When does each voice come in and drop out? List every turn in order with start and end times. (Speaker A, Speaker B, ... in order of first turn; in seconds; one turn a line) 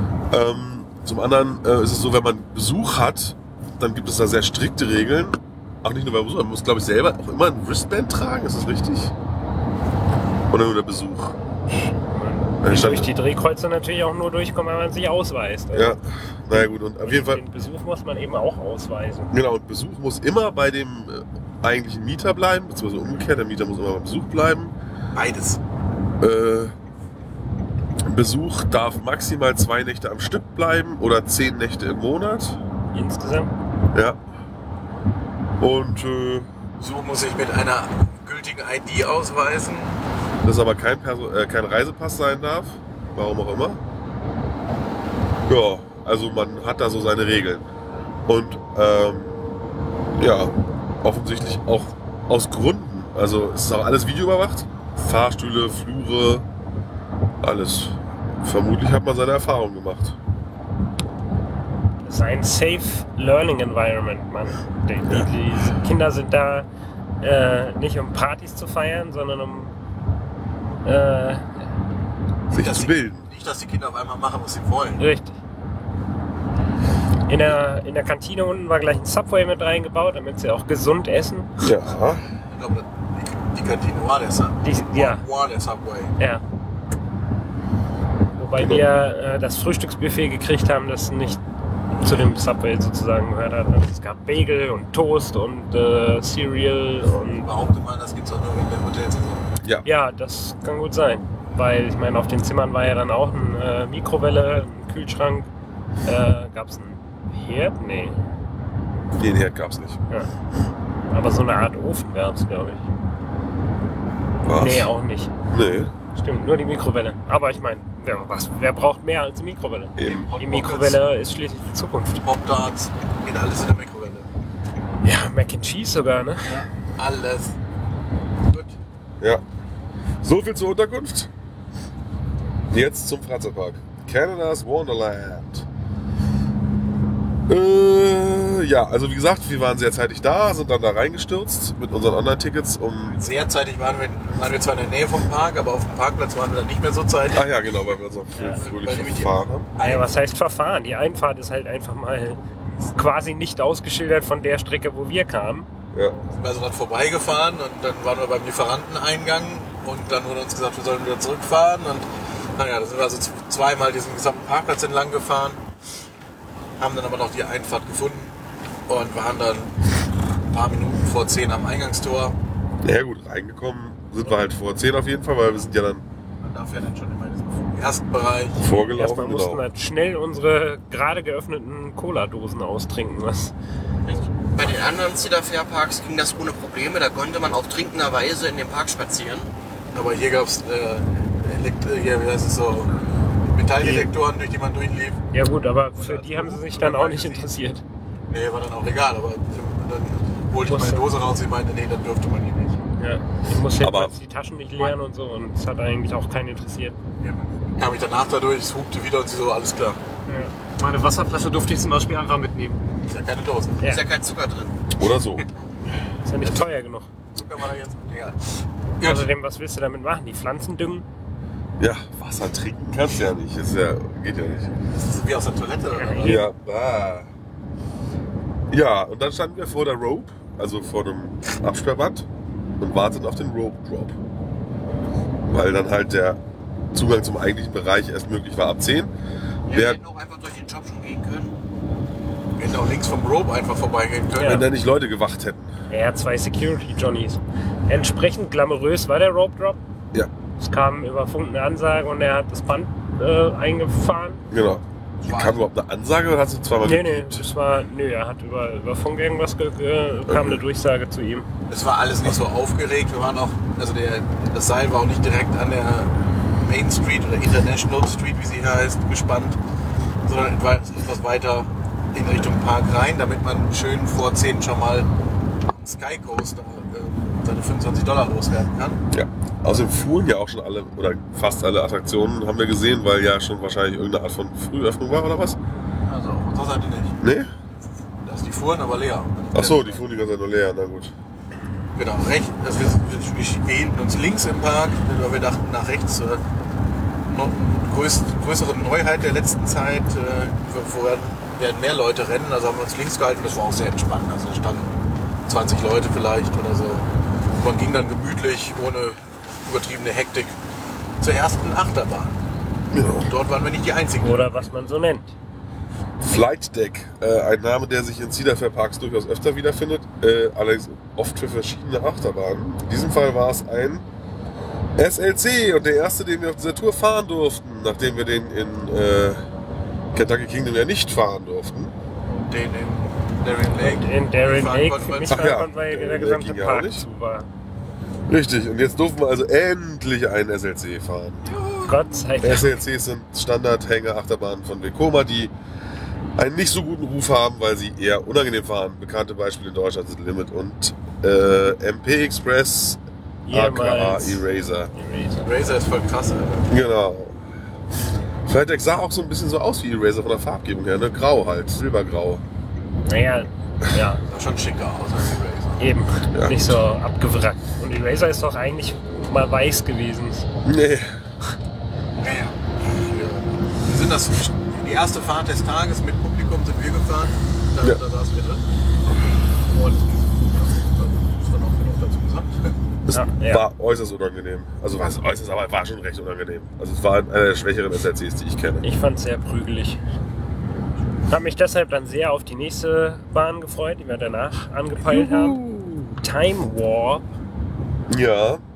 Speaker A: 0.3-9.1
Speaker A: 10.5-11.4
Speaker B: 11.9-16.0
Speaker A: 12.6-13.1
Speaker A: 15.7-17.4
Speaker B: 16.5-19.3
Speaker A: 19.3-24.7
Speaker C: 25.1-25.6
Speaker A: 26.2-26.7
Speaker A: 28.0-32.6
Speaker B: 32.9-33.5
Speaker A: 33.9-34.2
Speaker A: 35.6-36.5
Speaker C: 36.8-40.0
Speaker A: 40.4-43.8
Speaker A: 45.5-47.6
Speaker A: 48.3-49.4
Speaker A: 50.2-50.5
Speaker A: 51.0-56.5
Speaker A: 57.4-60.2
Speaker B: 62.0-66.7
Speaker B: 67.2-69.8
Speaker B: 70.8-71.5
Speaker C: 72.5-75.0
Speaker A: 72.5-73.2
Speaker B: 75.0-75.3
Speaker B: 77.3-81.6
Speaker A: 81.6-82.2
Speaker C: 82.5-86.1
Speaker B: 84.6-85.2
Speaker B: 88.4-91.4
Speaker A: 88.6-88.8
Speaker B: 92.0-97.5
Speaker C: 97.3-99.5
Speaker A: 99.6-99.8
Speaker B: 99.8-105.5
Speaker B: 106.0-108.2
Speaker A: 109.1-110.0
Speaker B: 111.1-112.8
Speaker A: 114.4-114.9
Speaker B: 114.5-115.3
Speaker A: 115.5-115.9
Speaker B: 116.1-122.2
Speaker A: 120.0-120.3
Speaker C: 120.0-121.0
Speaker C: 122.2-124.3
Speaker B: 125.0-126.5
Speaker C: 126.4-127.5
Speaker C: 128.4-128.8
Speaker A: 130.2-131.3
Speaker A: 132.7-135.7
Speaker A: 137.5-143.2
Speaker C: 143.1-147.5
Speaker A: 147.3-149.7
Speaker B: 148.3-148.6
Speaker C: 148.5-150.1
Speaker B: 149.8-152.4
Speaker B: 152.9-155.7
Speaker A: 155.9-156.2
Speaker C: 156.3-165.6
Speaker C: 166.8-168.3
Speaker C: 168.9-169.7
Speaker C: 170.5-172.4
Speaker A: 172.8-176.0
Speaker C: 176.4-178.6
Speaker A: 178.6-179.6
Speaker B: 178.9-183.5
Speaker D: 184.4-189.5
Speaker C: 189.9-192.9
Speaker C: 193.4-195.2
Speaker B: 193.8-194.1
Speaker B: 195.3-197.8
Speaker C: 195.9-197.7
Speaker C: 198.3-202.8
Speaker B: 200.7-201.1
Speaker B: 203.0-207.0
Speaker A: 203.8-204.1
Speaker C: 207.2-210.0
Speaker E: 210.8-212.8
Speaker C: 213.1-213.8
Speaker D: 213.8-214.8
Speaker A: 214.9-215.4
Speaker B: 216.2-217.1
Speaker C: 217.3-218.4
Speaker C: 219.0-219.2
Speaker B: 219.0-221.1
Speaker A: 221.8-224.7
Speaker C: 224.9-226.3
Speaker B: 225.9-226.4
Speaker A: 226.2-227.3
Speaker A: 228.7-232.3
Speaker A: 232.8-234.2
Speaker A: 235.5-236.4
Speaker A: 236.9-239.1
Speaker D: 239.7-241.6
Speaker A: 239.7-240.0
Speaker C: 242.6-244.6
Speaker B: 244.4-244.6
Speaker A: 244.4-245.7
Speaker B: 245.9-249.8
Speaker B: 250.6-254.4
Speaker A: 254.5-257.5
Speaker C: 255.2-255.6
Speaker B: 256.8-261.5
Speaker A: 260.3-260.6
Speaker C: 261.7-269.6
Speaker C: 270.2-275.1
Speaker C: 275.6-279.0
Speaker A: 279.1-285.6
Speaker C: 286.1-287.2
Speaker A: 287.2-287.5
Speaker C: 288.2-290.0
Speaker A: 289.5-291.1
Speaker C: 291.9-296.4
Speaker C: 297.3-304.9
Speaker C: 305.5-307.1
Speaker C: 307.6-310.6
Speaker C: 311.2-312.3
Speaker A: 312.9-313.3
Speaker C: 313.2-314.7
Speaker B: 314.2-315.3
Speaker A: 316.2-324.1
Speaker A: 325.0-329.4
Speaker A: 330.1-331.9
Speaker C: 332.3-335.6
Speaker B: 333.8-337.5
Speaker A: 335.3-337.1
Speaker A: 338.3-341.5
Speaker C: 341.4-342.3
Speaker B: 341.8-342.7
Speaker A: 342.4-345.5
Speaker A: 346.4-353.0
Speaker B: 353.4-354.4
Speaker A: 353.5-354.9
Speaker B: 354.9-355.5
Speaker C: 355.4-356.7
Speaker A: 356.7-357.4
Speaker A: 358.5-362.4
Speaker B: 363.1-364.2
Speaker C: 364.3-365.9
Speaker B: 365.8-370.5
Speaker A: 366.3-366.8
Speaker A: 370.6-371.2
Speaker C: 372.2-382.7
Speaker A: 383.1-388.8
Speaker B: 383.1-383.6
Speaker B: 388.8-390.0
Speaker B: 391.3-395.6
Speaker A: 395.0-396.2
Speaker B: 396.2-397.2
Speaker A: 398.1-398.6